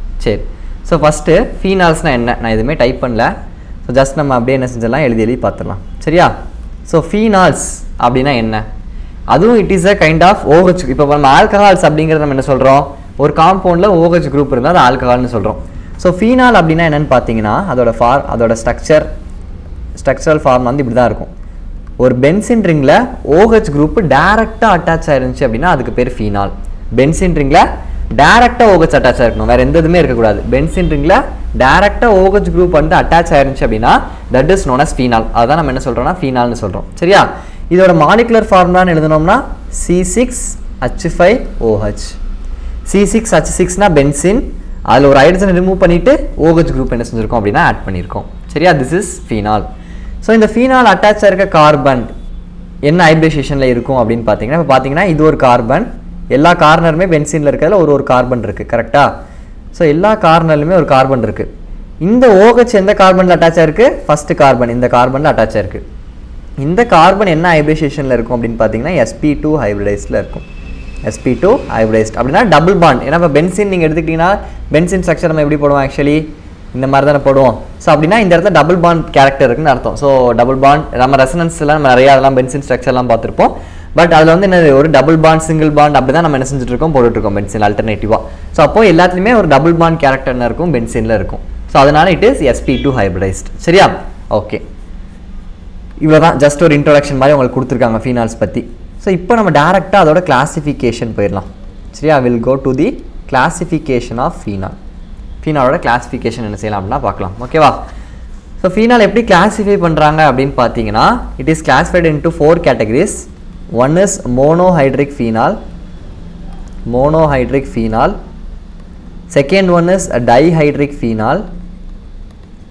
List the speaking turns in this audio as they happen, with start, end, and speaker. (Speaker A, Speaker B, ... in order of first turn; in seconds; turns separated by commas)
Speaker A: 0.2-3.3, Speaker A: 3.9-6.3, Speaker A: 6.9-8.7, Speaker A: 9.3-19.1, Speaker A: 20.0-21.3, Speaker A: 22.0-42.1, Speaker A: 42.9-49.7, Speaker A: 50.2-52.1, Speaker A: 52.9-59.1, Speaker A: 59.7-61.5, Speaker A: 62.0-65.8, Speaker A: 66.6-70.5, Speaker A: 71.1-94.6, Speaker A: 96.0-104.8, Speaker A: 105.4-107.8, Speaker A: 108.6-115.6, Speaker A: 116.9-118.2, Speaker A: 119.3-121.5